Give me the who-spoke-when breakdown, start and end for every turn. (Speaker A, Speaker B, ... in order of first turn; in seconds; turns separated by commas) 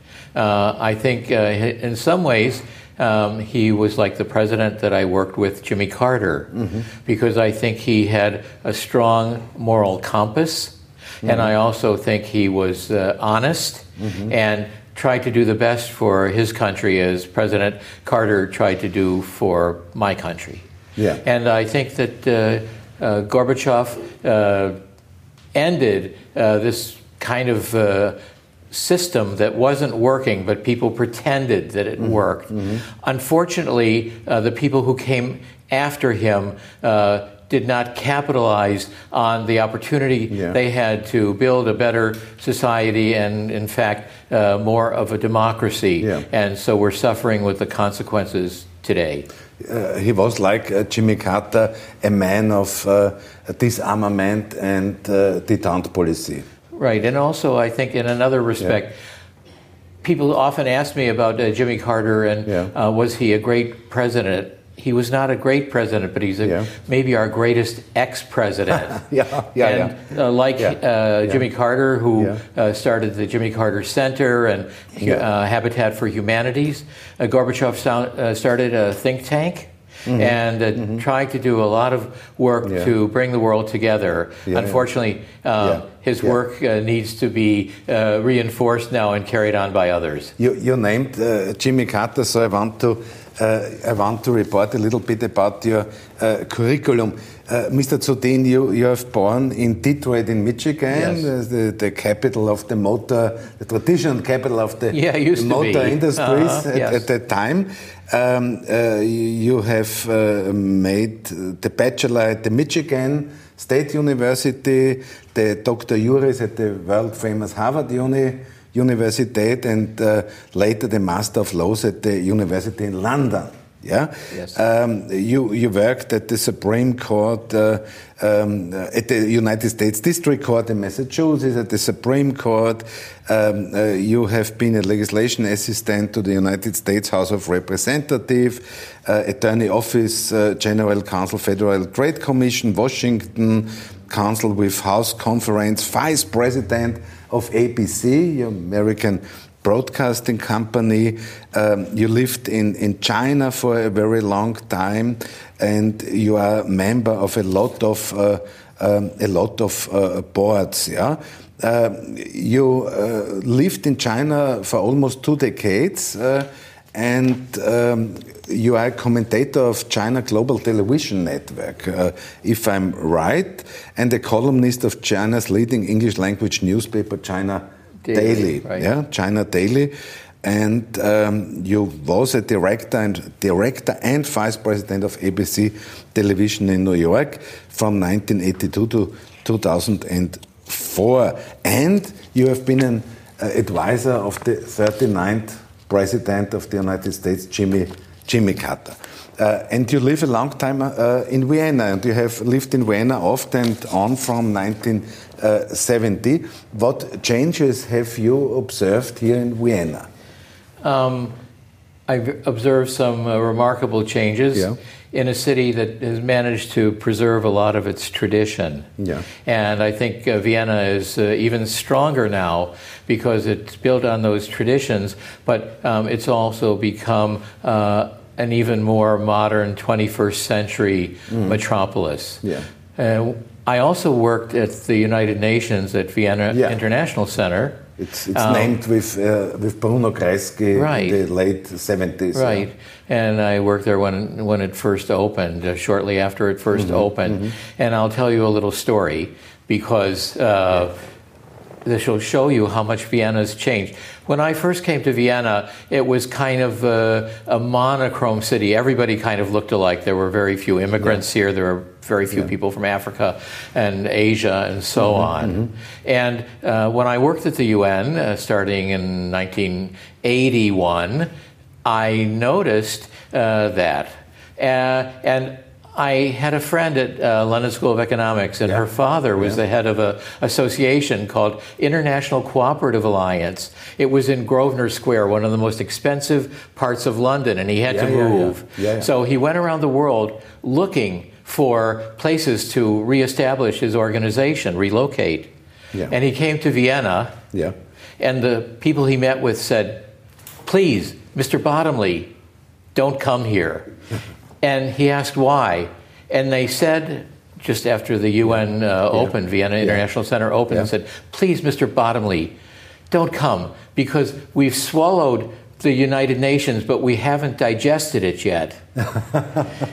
Speaker A: 0.3-20.6, Speaker B: 11.2-11.5, Speaker B: 14.0-14.3, Speaker A: 21.2-24.8, Speaker A: 25.5-28.2, Speaker A: 28.7-49.3, Speaker B: 32.0-32.8, Speaker B: 40.3-40.6, Speaker B: 46.0-46.3, Speaker B: 49.6-56.5, Speaker A: 56.8-59.0, Speaker A: 60.0-69.0, Speaker B: 62.5-62.7, Speaker B: 66.4-66.7, Speaker B: 68.7-70.0, Speaker A: 69.6-90.3, Speaker B: 70.6-71.4, Speaker B: 80.1-81.0, Speaker B: 82.6-82.9, Speaker B: 84.5-84.8, Speaker B: 85.6-86.4, Speaker B: 90.4-210.1, Speaker A: 100.9-101.3, Speaker A: 104.9-107.0, Speaker A: 124.3-124.6, Speaker A: 178.0-178.9, Speaker A: 210.8-211.3, Speaker A: 212.1-218.9, Speaker B: 219.0-219.3, Speaker A: 219.4-232.4, Speaker B: 231.3-231.6, Speaker A: 233.0-238.8, Speaker B: 236.5-236.8, Speaker B: 238.0-242.7, Speaker A: 240.7-241.2, Speaker A: 242.3-251.0, Speaker B: 246.7-247.5, Speaker A: 251.8-271.3, Speaker B: 265.0-265.7, Speaker A: 271.9-295.5, Speaker B: 287.9-289.1, Speaker A: 296.1-297.4, Speaker A: 298.2-300.1, Speaker A: 300.6-302.3, Speaker A: 302.9-303.9, Speaker A: 304.6-312.5, Speaker B: 309.1-310.0, Speaker A: 313.1-318.8, Speaker B: 319.1-319.7